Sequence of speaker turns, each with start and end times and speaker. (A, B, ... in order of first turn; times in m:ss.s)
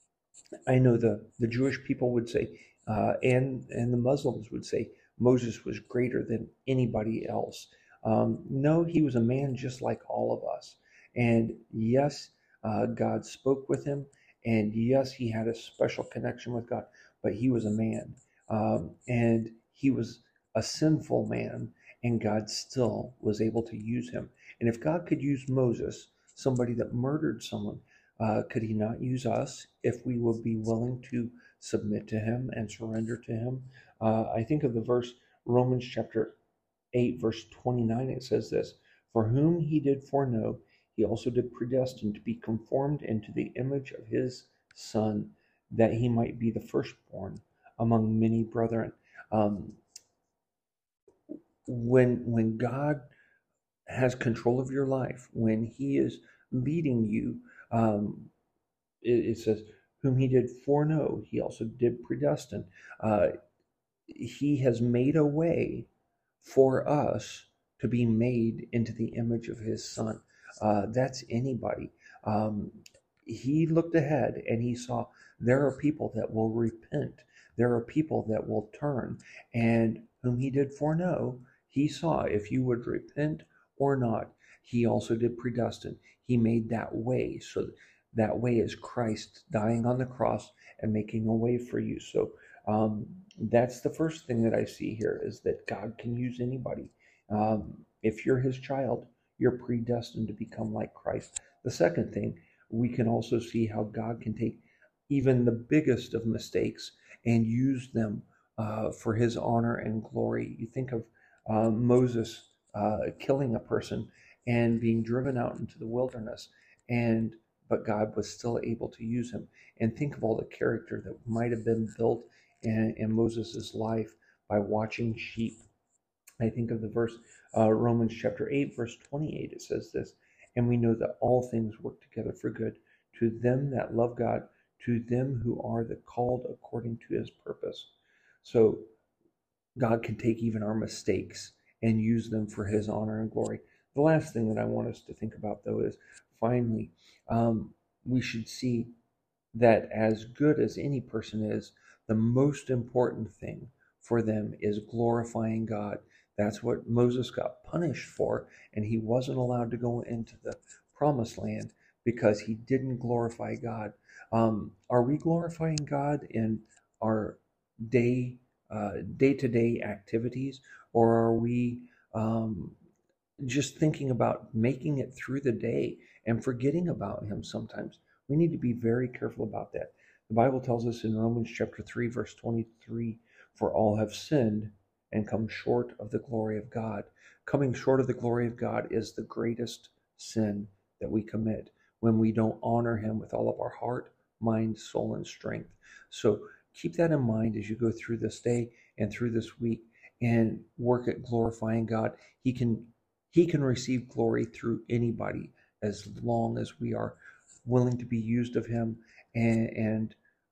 0:00.7-0:36.4 A
0:36.9-0:49.8 A
0:51.6-0:53.1 A
0:53.9-0:58.3 A
0:59.0-1:03.4 A
1:04.1-1:05.9 A
1:06.4-2:05.6 A
2:06.4-2:17.9 A
2:18.4-2:18.9 A
2:19.8-2:28.9 A
2:29.5-2:52.8 A
2:53.4-3:30.2 A